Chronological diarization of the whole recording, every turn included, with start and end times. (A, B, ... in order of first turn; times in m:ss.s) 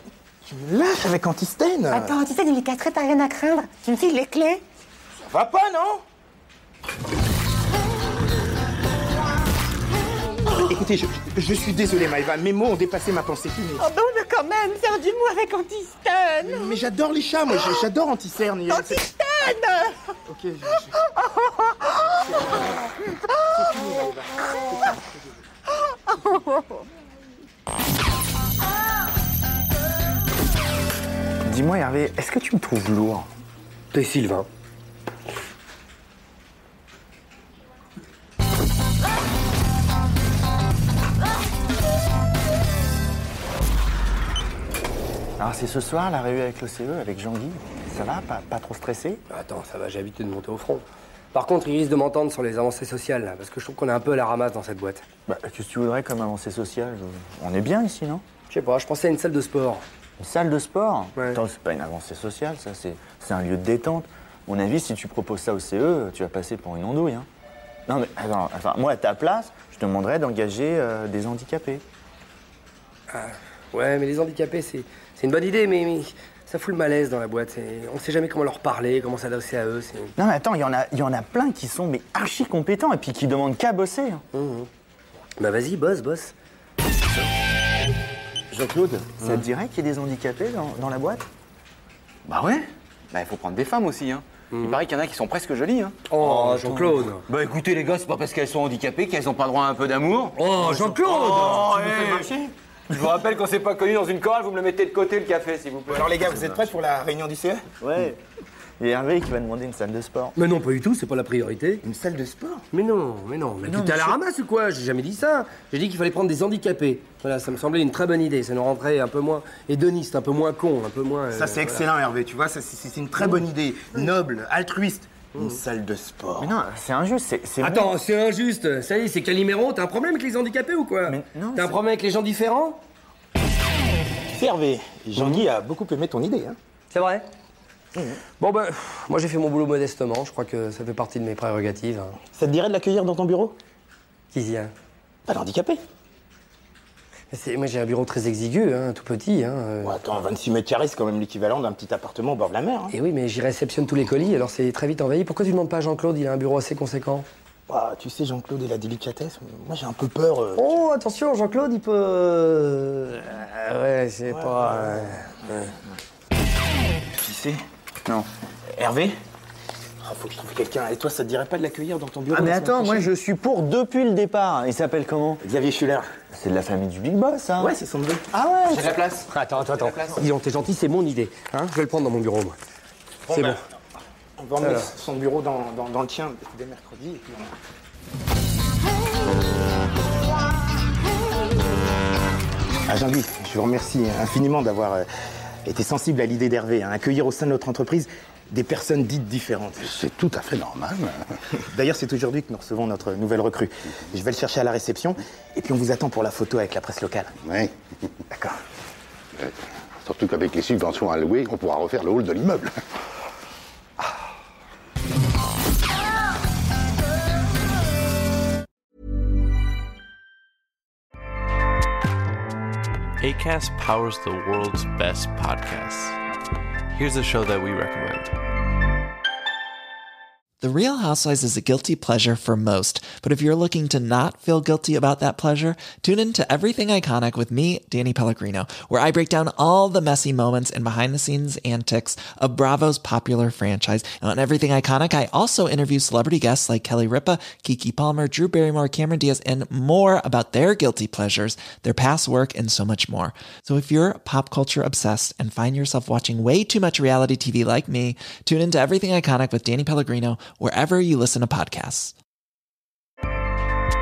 0:00.4-0:02.1 A
0:01.9-0:04.6 B
0:05.3-0:06.0 A
0:10.7-0:13.8 A
0:13.8-0:16.8 B
0:16.4-0:19.0 A
0:18.7-0:20.0 B
0:20.3-0:20.9 A
0:21.0-0:21.8 B
0:26.1-0:26.6 B
0:31.5-0:33.3 C
0:33.9-0:34.5 D
0:45.4-0:49.2 C
0:49.3-0:55.0 D
0:55.3-0:58.2 C
0:58.5-0:59.8 D
1:00.2-1:07.3 C
1:07.9-1:11.8 C
1:13.1-1:20.1 D
1:20.2-1:24.2 C
1:24.3-1:24.7 D
1:25.4-1:26.3 D
1:28.5-1:31.3 C
1:33.7-1:34.2 E
1:34.5-1:34.8 D
1:36.1-1:37.2 D
1:36.2-1:36.6 E
1:37.5-1:42.1 E
1:40.4-1:42.3 D
1:41.4-1:41.9 C
1:45.9-1:47.6 A
1:47.8-1:48.2 C
1:48.8-1:50.4 C
1:50.4-1:51.8 D
1:51.8-1:52.6 A
1:52.7-2:01.9 D
1:53.7-1:54.2 C
2:01.3-2:06.6 A
2:06.4-2:07.9 C
2:07.6-2:12.8 D
2:11.1-2:11.8 C
2:14.3-2:16.6 A
2:16.9-2:17.2 D
2:18.4-2:22.2 D
2:22.3-2:23.6 A
2:24.3-2:24.7 D
2:25.3-2:25.8 A
2:27.3-2:30.0 D
2:29.8-2:32.9 A
2:32.9-2:37.3 D
2:37.7-2:40.8 A
2:40.6-2:45.8 D
2:44.3-2:45.2 A
2:47.2-2:47.6 A
2:48.7-2:49.2 A
2:50.0-2:53.1 A
2:52.3-2:55.4 C
2:55.4-2:56.1 A
2:56.3-2:57.7 C
2:57.6-2:58.2 A
2:58.3-2:59.0 C
2:59.3-3:02.6 D
3:03.3-3:03.6 A
3:03.3-3:03.6 D
3:04.4-3:07.6 A
3:04.6-3:04.9 D
3:12.9-3:15.1 A
3:15.7-3:20.0 A
3:19.8-3:21.2 F
3:21.6-3:27.3 A
3:27.4-3:27.7 F
3:30.0-3:32.8 F
3:43.2-3:46.2 G
3:46.9-3:48.4 G
3:50.6-4:22.1 H